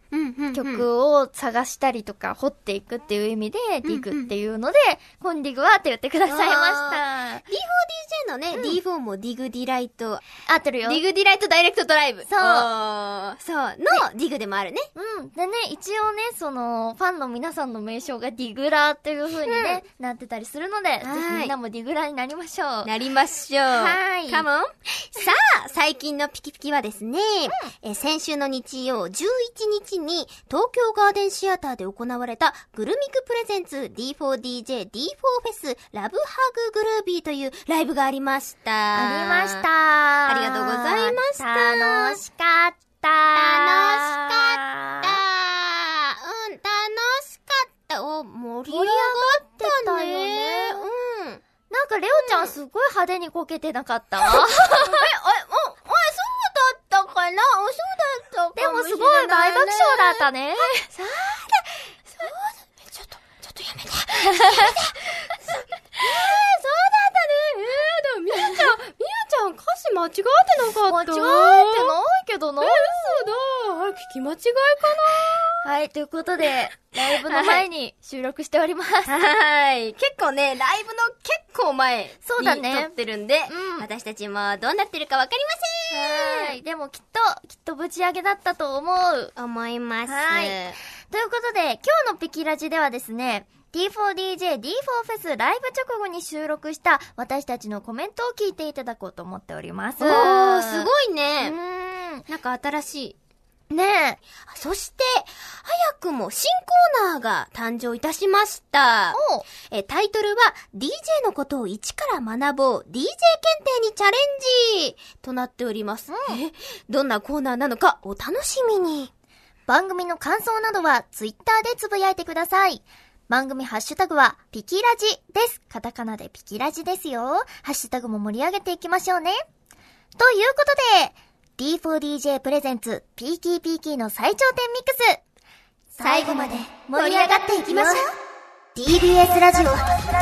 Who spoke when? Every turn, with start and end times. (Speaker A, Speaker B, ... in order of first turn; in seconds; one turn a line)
Speaker A: 0.1-0.9
Speaker B: 0.5-7.5
Speaker A: 3.8-4.3
Speaker A: 6.3-10.2
Speaker B: 8.5-8.8
Speaker B: 10.5-11.0
Speaker A: 10.8-14.9
Speaker B: 12.3-12.7
Speaker B: 14.9-22.9
Speaker A: 19.4-19.8
Speaker A: 21.0-21.6
Speaker A: 22.8-39.7
Speaker B: 23.7-24.5
Speaker B: 38.9-45.2
Speaker A: 40.3-42.2
Speaker A: 43.4-51.4
Speaker B: 48.7-50.9
Speaker B: 51.7-55.0
Speaker A: 52.2-52.5
Speaker A: 54.2-71.9
Speaker B: 58.6-60.9
Speaker B: 64.2-64.7
Speaker B: 68.4-68.7
Speaker B: 70.9-73.2
Speaker A: 72.6-75.7
Speaker B: 75.6-79.2
Speaker A: 77.1-77.7
Speaker A: 79.1-86.6
Speaker B: 82.2-82.9
Speaker B: 83.5-83.9
Speaker B: 85.9-89.3
Speaker A: 89.4-90.8
Speaker B: 90.1-100.9
Speaker A: 100.0-101.6
Speaker B: 101.4-102.3
Speaker A: 102.3-103.2
Speaker B: 103.7-104.2
Speaker A: 104.5-119.1
Speaker B: 109.1-109.5
Speaker B: 116.1-116.4
Speaker B: 119.7-129.4
Speaker B: 130.2-135.2
Speaker B: 136.0-138.1
Speaker A: 136.0-138.1
Speaker B: 138.8-140.0